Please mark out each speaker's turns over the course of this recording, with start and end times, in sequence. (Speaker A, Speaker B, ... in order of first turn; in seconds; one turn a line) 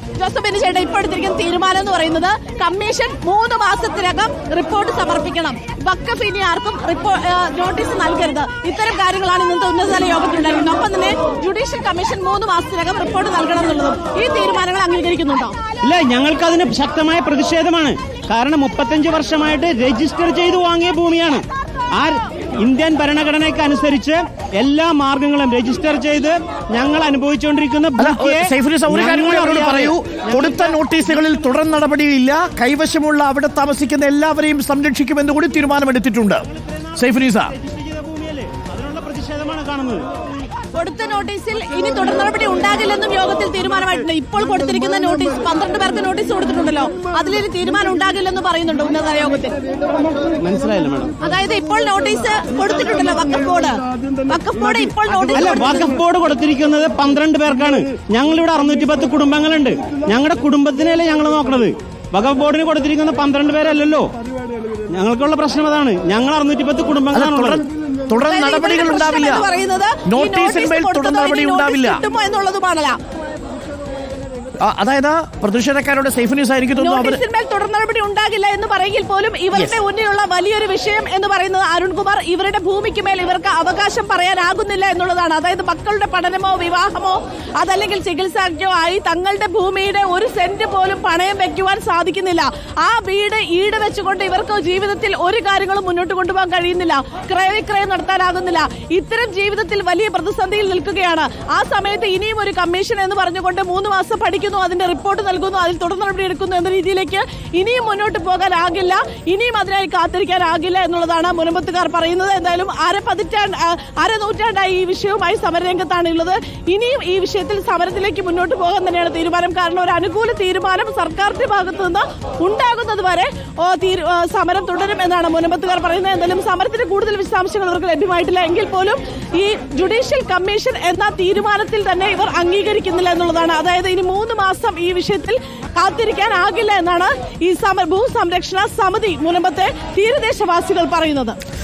Speaker A: 0.2-15.6
Speaker B: 15.8-30.8
Speaker C: 28.0-36.4
Speaker C: 37.0-37.5
Speaker B: 37.5-40.1
Speaker A: 40.7-49.6
Speaker B: 50.4-51.1
Speaker A: 51.2-55.9
Speaker B: 55.2-64.1
Speaker B: 64.8-67.6
Speaker C: 67.1-69.4
Speaker A: 68.2-73.0
Speaker C: 70.1-72.0
Speaker C: 74.6-77.2
Speaker A: 76.8-141.3